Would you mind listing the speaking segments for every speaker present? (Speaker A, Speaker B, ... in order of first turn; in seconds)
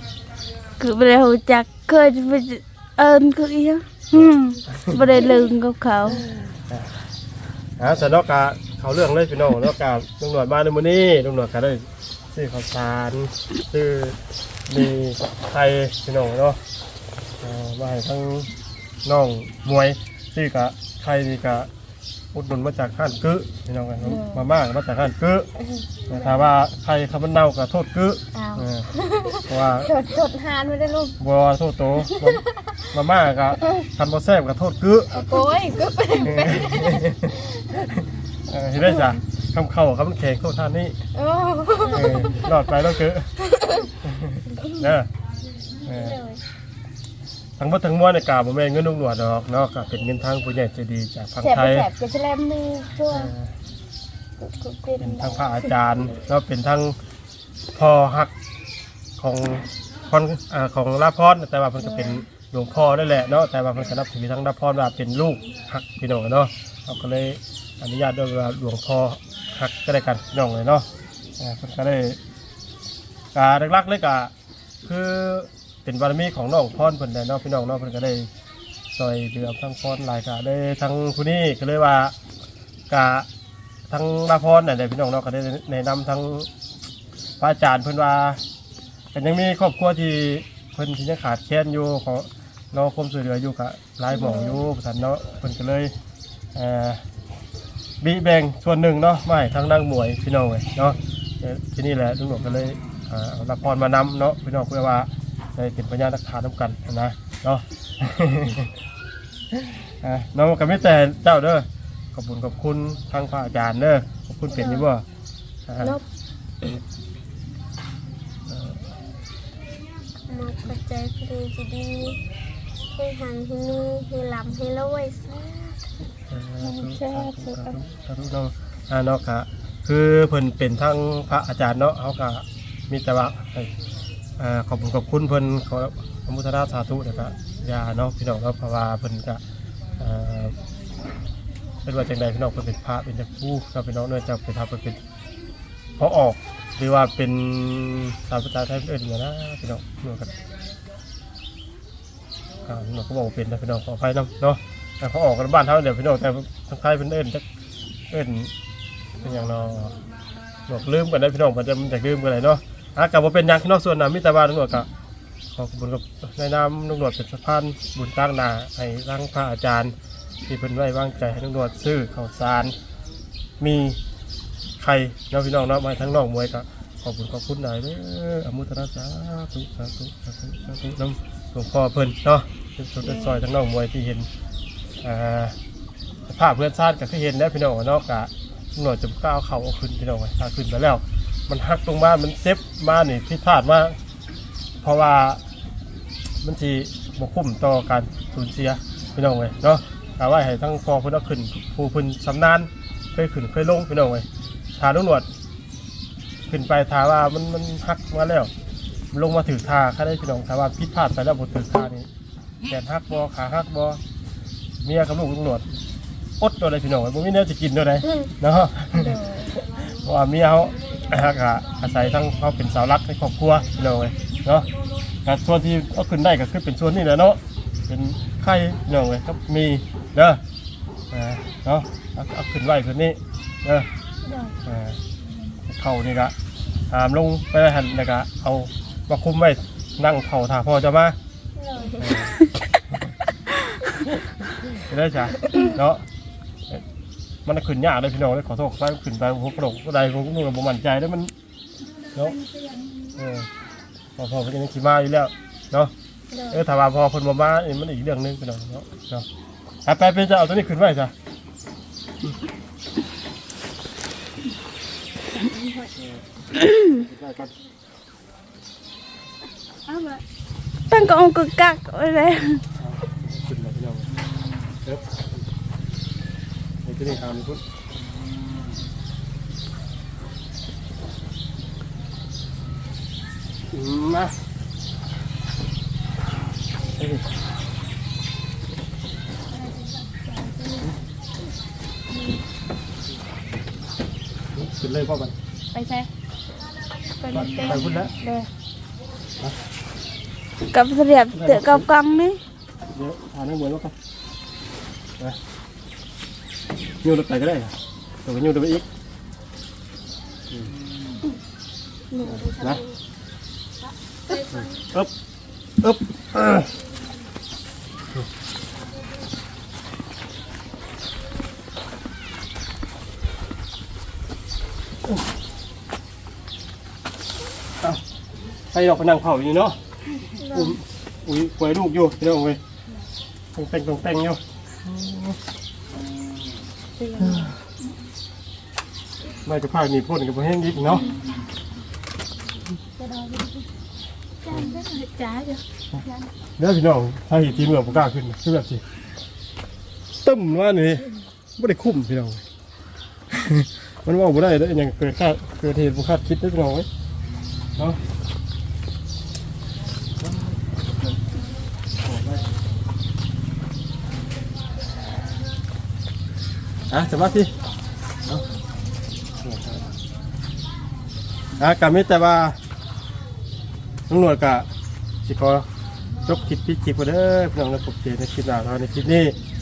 Speaker A: 0.8-6.2, 270.9-272.6, 300.7-302.4
Speaker B: 4.1-5.3, 6.2-6.9, 7.8-16.6, 17.4-18.5, 19.0-21.7, 22.3-25.5, 26.1-28.9, 29.5-29.9, 31.2-32.4, 32.9-35.3, 36.2-41.0, 41.9-43.3, 44.0-45.1, 45.8-46.2, 47.6-51.9, 53.1-53.5, 55.0-57.0, 57.7-58.3, 59.2-70.9, 71.4-72.2, 73.3-74.3, 74.8-78.3, 78.9-82.1, 82.9-83.3, 83.9-86.5, 87.4-88.4, 89.1-95.9, 96.5-97.0, 98.0-108.7, 109.5-115.0, 115.7-116.0, 118.5-118.9, 126.3-133.7, 134.4-139.4, 140.0-140.6, 141.8-145.0, 146.0-150.3, 152.7-157.4, 158.1-158.5, 159.2-159.9, 160.7-164.9, 165.6-169.9, 170.5-172.7, 173.6-174.0, 174.8-184.3, 185.0-185.6, 186.3-194.0, 194.8-195.4, 196.4-205.3, 206.5-208.5, 209.1-212.1, 212.7-214.0, 214.8-215.7, 216.4-224.7, 225.2-230.4, 231.1-233.9, 234.6-235.0, 235.6-236.3, 236.9-241.2, 241.9-242.4, 244.7-246.0, 247.4-251.3, 252.1-252.4, 253.1-253.5, 254.2-255.9, 256.5-259.3, 259.8-261.1, 265.9-266.2, 266.8-267.5, 272.8-274.1, 274.8-275.2, 276.8-277.6, 283.7-284.3, 286.9-287.3, 294.5-295.4, 297.3-298.1, 301.3-301.9, 302.9-303.9, 307.0-308.9, 312.2-312.8, 314.5-315.1, 315.8-316.7, 328.7-329.8, 330.5-332.6, 333.5-335.4, 337.2-337.6, 339.4-341.1, 344.5-344.8, 346.6-348.8, 350.2-352.4, 353.3-356.9, 360.2-361.2, 362.0-362.5, 366.9-367.6, 369.4-369.9, 371.6-372.6, 374.1-374.7, 375.2-375.7, 376.2-379.4
Speaker C: 24.0-24.5, 25.6-26.4, 28.3-31.2, 32.0-32.7, 35.1-37.5, 38.8-39.1, 41.1-42.6, 43.4-43.9, 44.5-45.0, 45.8-46.4, 51.4-53.3, 54.4-55.7, 61.8-62.2, 94.1-94.6, 114.5-114.9, 120.3-122.2, 123.0-125.8, 126.6-127.8, 183.0-183.4, 218.9-219.6, 234.2-234.6, 241.6-242.3, 256.3-256.6, 269.9-270.2, 289.5-290.9, 295.7-296.1, 297.1-298.5, 312.1-313.0, 313.8-314.9, 330.4-330.8, 337.0-337.5, 344.4-346.3